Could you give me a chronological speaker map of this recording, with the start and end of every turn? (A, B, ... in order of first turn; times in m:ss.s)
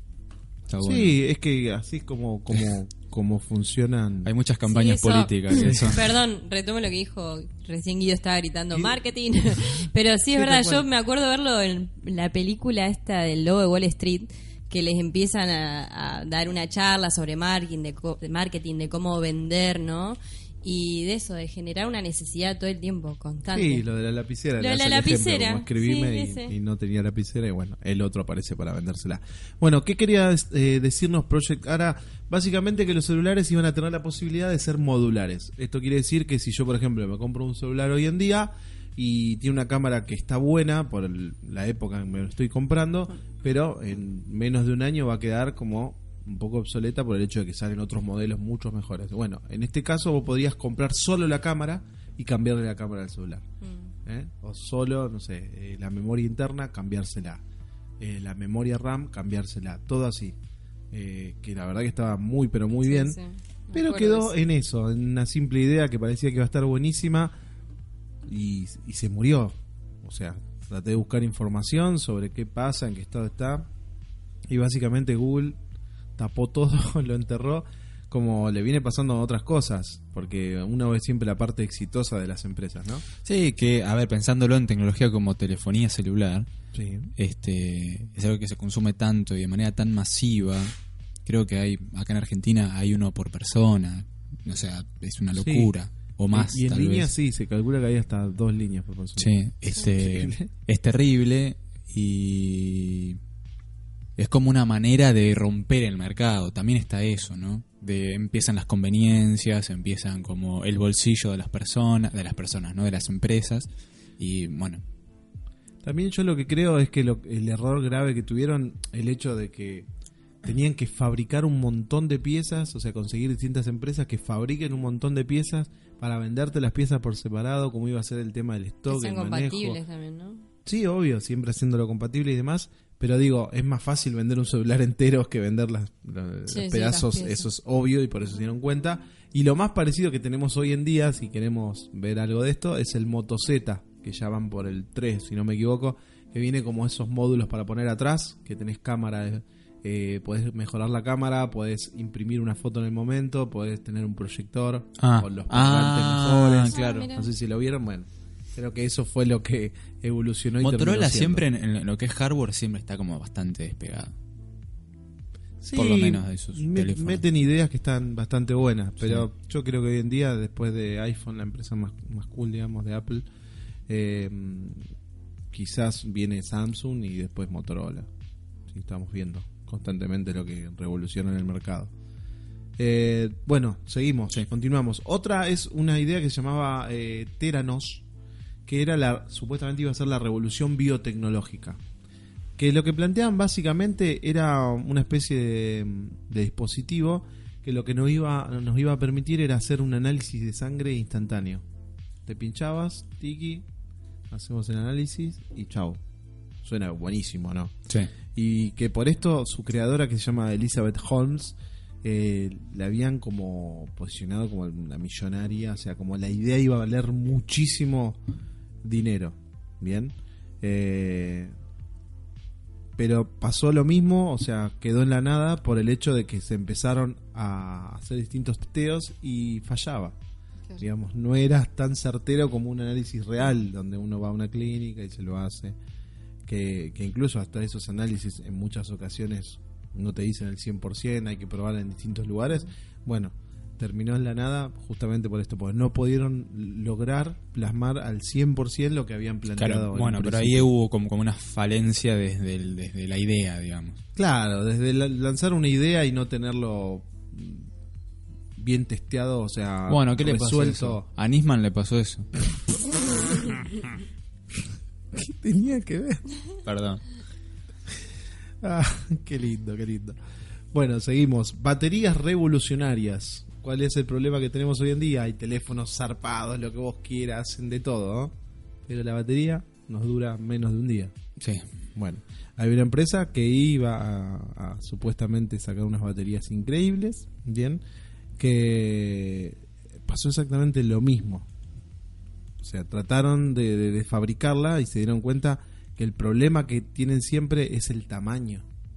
0:00.7-0:01.2 A
0:00.8-0:04.3 B
0:04.2-0:06.0 A
0:04.7-0:23.8 C
0:05.6-0:06.0 B
0:10.3-0:10.8 B
0:23.5-0:53.4 B
0:24.6-0:26.5 C
0:53.6-0:53.9 C
0:54.0-0:57.4 B
0:58.0-1:00.4 B
1:00.9-1:03.2 B
1:02.9-1:04.3 C
1:03.7-1:07.4 B
1:08.2-1:13.7 B
1:14.5-1:15.6 B
1:16.2-1:23.0 B
1:23.2-1:26.5 A
1:26.7-1:27.1 B
1:27.2-1:30.7 A
1:31.2-1:37.1 A
1:35.3-1:35.7 B
1:36.3-1:40.5 B
1:39.2-1:43.2 A
1:44.2-1:53.7 A
1:54.2-1:54.8 A
1:55.8-1:59.9 B
2:00.4-2:09.8 B
2:08.9-2:10.4 C
2:10.6-2:41.4 B
2:16.5-2:17.4 C
2:35.0-2:37.1 A
2:36.7-2:37.3 C
2:40.6-2:44.1 A
2:45.6-2:53.3 B
2:45.7-2:47.2 A
2:49.0-2:49.2 A
2:53.9-2:54.8 B
2:55.5-2:58.1 B
2:58.7-3:01.9 B
3:02.8-3:08.0 B
3:08.6-3:11.8 B
3:12.6-3:21.6 B
3:22.2-3:23.6 B
3:24.3-3:26.0 B
3:26.6-3:27.8 B
3:28.3-3:38.2 B
3:38.8-3:41.5 B
3:43.0-3:50.2 B
3:50.8-3:55.8 B
3:56.4-4:10.7 B
4:09.6-4:14.0 A
4:14.2-4:17.7 B
4:18.6-4:21.0 B
4:19.9-4:22.3 A
4:25.1-4:26.2 B
4:26.6-4:27.0 A
4:28.6-4:30.2 B
4:30.7-4:38.3 B
4:38.8-4:41.1 B
4:41.4-4:41.6 A
4:41.9-4:47.8 B
4:48.4-4:51.5 B
4:52.6-4:58.6 B